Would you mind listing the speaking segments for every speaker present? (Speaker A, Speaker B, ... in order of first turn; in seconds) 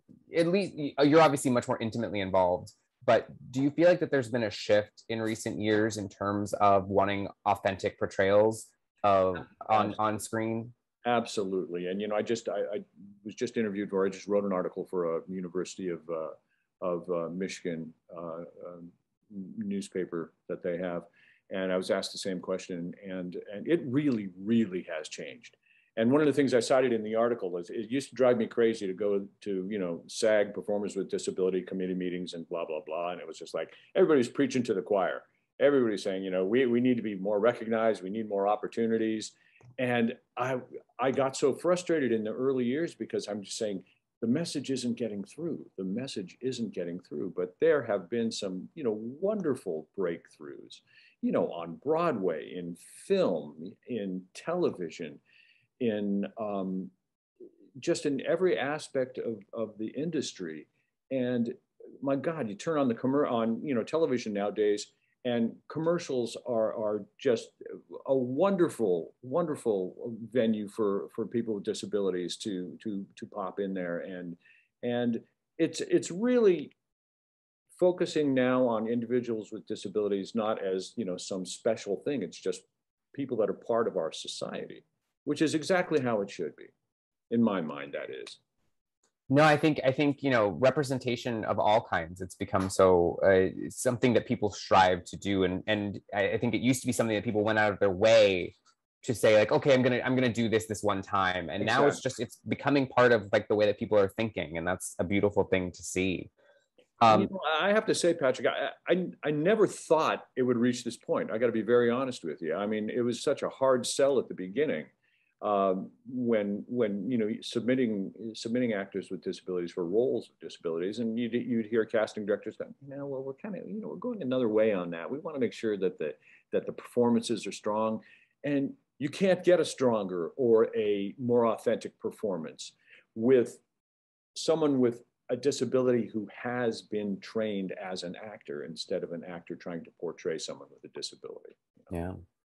Speaker A: 0.3-10.7, 89.3-106.3, 107.0-107.3, 141.9-142.2
Speaker B: 11.0-55.2, 55.8-56.9, 57.8-76.7, 77.8-86.7, 87.3-88.4, 101.6-102.0, 107.1-114.9, 115.4-133.6, 134.3-141.9